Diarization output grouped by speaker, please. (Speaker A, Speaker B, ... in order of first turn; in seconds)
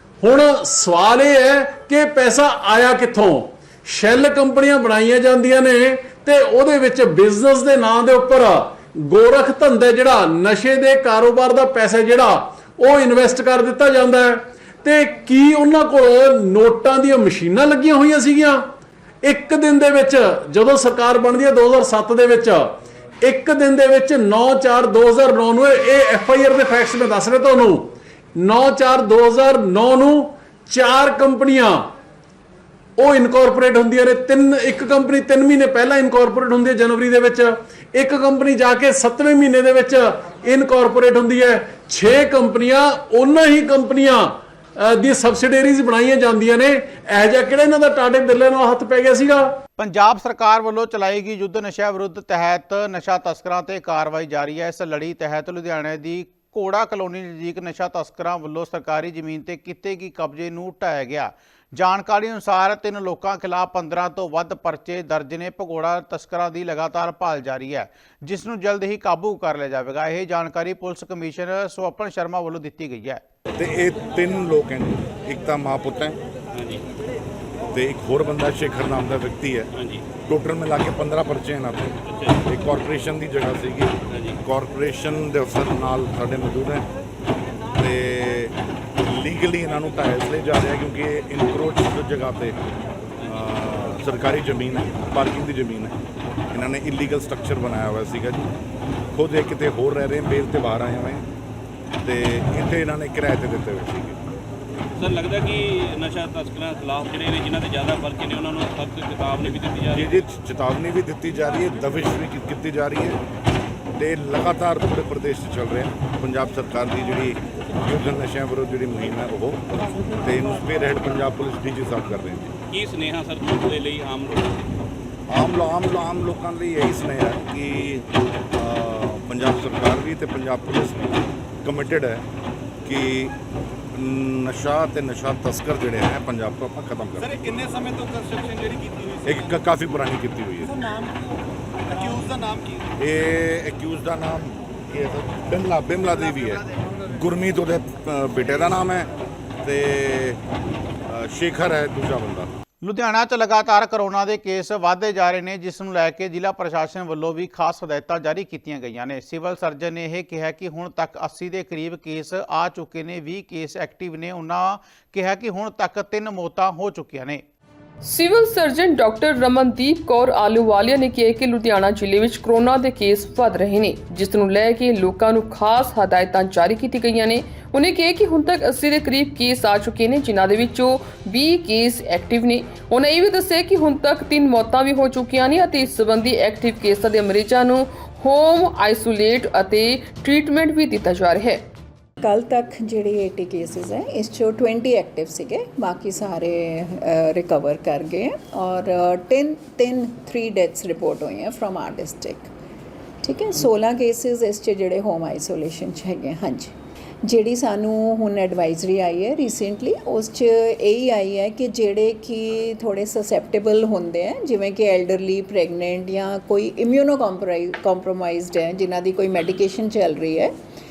Speaker A: 0.2-18.6, 19.2-31.9, 33.0-49.6
Speaker B: 49.8-73.2, 152.8-167.4
Speaker C: 73.6-76.2, 77.7-86.9, 87.8-92.6, 93.3-96.0, 96.5-98.4, 99.1-101.2, 102.0-104.2, 109.5-113.2, 114.0-119.6, 120.2-122.5, 125.3-132.2, 132.8-133.3, 133.9-137.7, 139.2-140.7, 143.0-149.1, 149.6-150.4, 151.1-152.5
Speaker D: 105.0-109.9, 122.7-124.4
Speaker E: 168.0-191.6
Speaker F: 192.2-202.5, 203.2-206.7, 207.2-220.5